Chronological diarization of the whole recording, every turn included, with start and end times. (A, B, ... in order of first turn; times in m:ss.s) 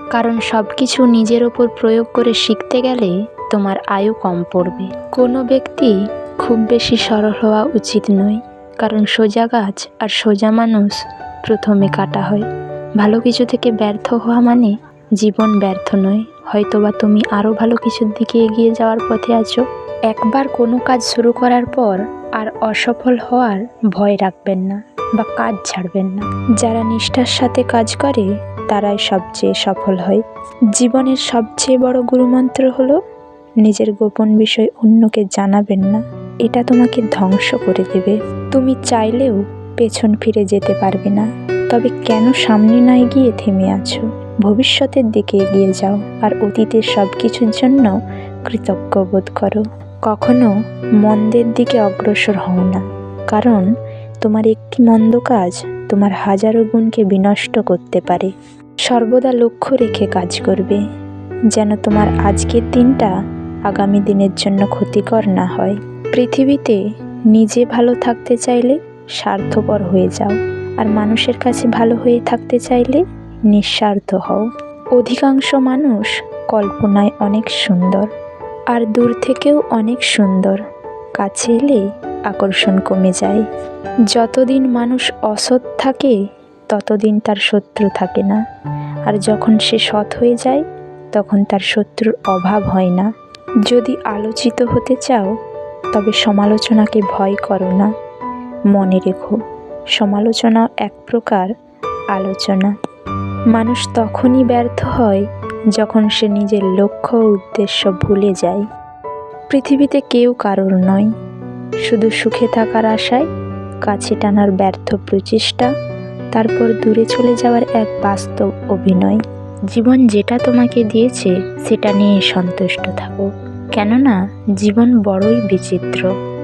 0:00.1-0:12.5 A
0:13.0-0:30.2 A
0:30.8-0:33.0 A
0:33.6-0:47.9 A
0:48.5-0:53.7 A
0:54.2-0:58.3 A
0:58.9-1:00.8 A
1:01.5-1:03.1 A
1:03.7-1:06.8 A
1:07.3-1:14.4 A
1:15.0-1:18.1 A
1:18.7-1:20.6 A
1:21.2-1:23.4 A
1:24.1-1:26.2 A
1:26.7-1:28.4 A
1:29.1-1:33.1 A
1:33.7-1:35.3 A
1:35.9-1:37.9 A
1:38.7-1:39.4 A
1:40.0-1:41.5 A
1:42.1-1:42.7 A
1:43.5-1:45.2 A
1:45.8-1:48.6 A
1:49.5-1:51.1 A
1:51.9-1:53.3 A
1:53.9-1:55.7 A
1:56.3-1:59.2 A
1:59.7-2:06.1 A